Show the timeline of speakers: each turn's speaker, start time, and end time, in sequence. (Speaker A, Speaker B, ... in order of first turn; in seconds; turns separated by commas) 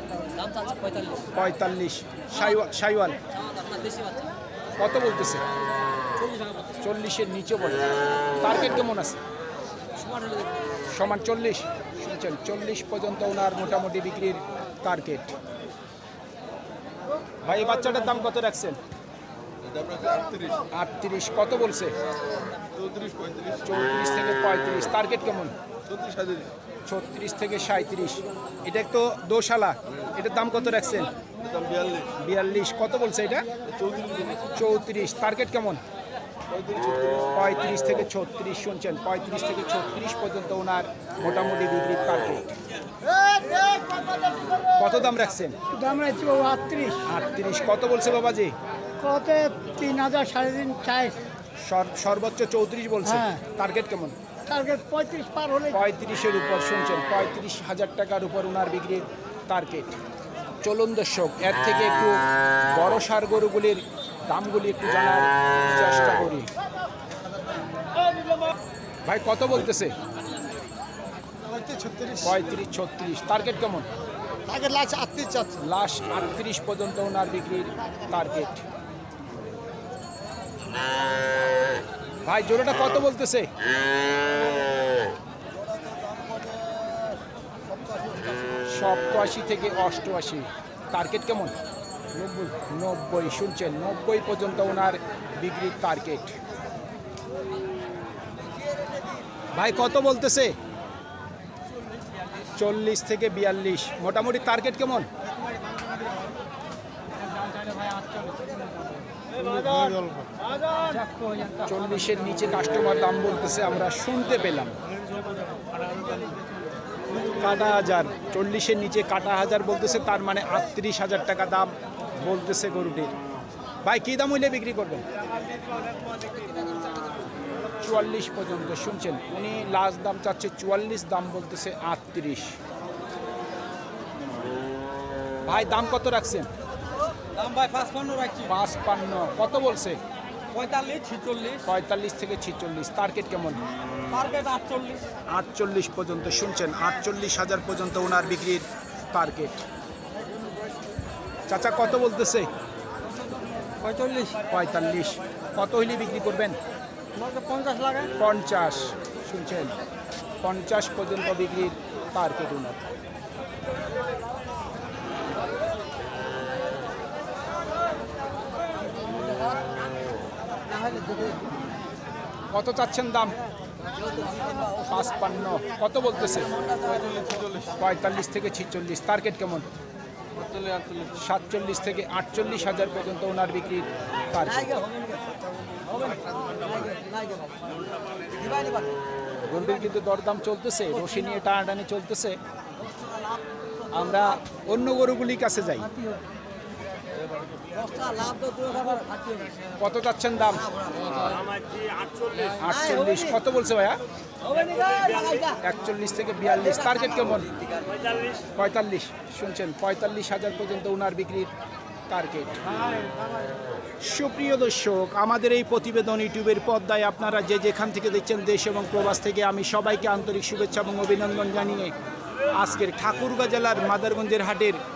Speaker A: 0.3-1.3, Speaker B: 1.3-3.2, Speaker A: 3.4-4.3, Speaker B: 4.8-5.4, Speaker A: 6.2-6.6, Speaker B: 6.8-9.2, Speaker A: 9.9-10.5, Speaker B: 10.9-15.3, Speaker B: 17.4-18.8, Speaker C: 19.7-20.6, Speaker B: 20.7-21.9, Speaker C: 22.8-23.6, Speaker B: 23.6-25.5, Speaker C: 25.9-26.5, Speaker B: 26.9-31.1, Speaker C: 31.5-32.1, Speaker B: 32.1-33.5, Speaker C: 33.8-34.4, Speaker B: 34.5-35.8, Speaker C: 36.5-37.2, Speaker B: 37.3-42.5, Speaker D: 43.0-44.7, Speaker B: 44.6-45.6, Speaker D: 45.7-47.1, Speaker B: 47.0-48.5, Speaker D: 49.0-51.2, Speaker B: 51.6-54.2, Speaker D: 53.0-53.4, Speaker D: 54.5-55.8, Speaker B: 55.7-60.0, Speaker B: 60.6-62.2, Speaker B: 62.7-66.5, Speaker B: 69.0-69.9, Speaker C: 71.5-72.2, Speaker B: 72.2-73.9, Speaker D: 74.5-75.5, Speaker B: 75.4-78.6, Speaker B: 82.2-83.5, Speaker A: 85.8-87.1, Speaker A: 87.7-88.3, Speaker B: 88.7-91.5, Speaker B: 92.2-96.4, Speaker B: 99.5-100.5, Speaker B: 102.5-105.1, Speaker A: 107.4-109.0, Speaker C: 109.4-110.3, Speaker A: 110.8-111.6, Speaker B: 111.6-114.8, Speaker A: 115.8-116.2, Speaker B: 117.4-123.1, Speaker B: 123.8-125.0, Speaker B: 127.8-132.6, Speaker B: 135.4-136.5, Speaker A: 137.3-138.5, Speaker B: 138.4-140.0, Speaker A: 140.5-141.6, Speaker B: 141.6-143.6, Speaker A: 144.1-145.1, Speaker B: 145.3-149.6, Speaker B: 151.5-152.5, Speaker A: 153.8-154.4, Speaker B: 154.5-156.6, Speaker A: 157.1-158.1, Speaker B: 158.1-159.7, Speaker B: 160.4-162.8, Speaker A: 170.7-171.3, Speaker B: 172.5-173.3, Speaker A: 174.0-174.9, Speaker B: 174.8-176.5, Speaker A: 176.6-177.7, Speaker B: 177.8-179.7, Speaker A: 180.5-181.0, Speaker B: 181.1-184.8, Speaker A: 184.6-185.3, Speaker A: 185.9-188.9, Speaker B: 189.4-192.4, Speaker A: 192.9-193.4, Speaker B: 193.9-195.9, Speaker A: 197.6-199.6, Speaker B: 199.8-200.7, Speaker A: 200.8-201.6, Speaker A: 202.2-203.3, Speaker B: 202.6-204.0, Speaker A: 204.4-205.6, Speaker B: 205.6-207.5, Speaker A: 207.3-208.2, Speaker B: 208.6-211.5, Speaker B: 212.1-212.6, Speaker B: 214.0-221.9, Speaker B: 222.6-224.8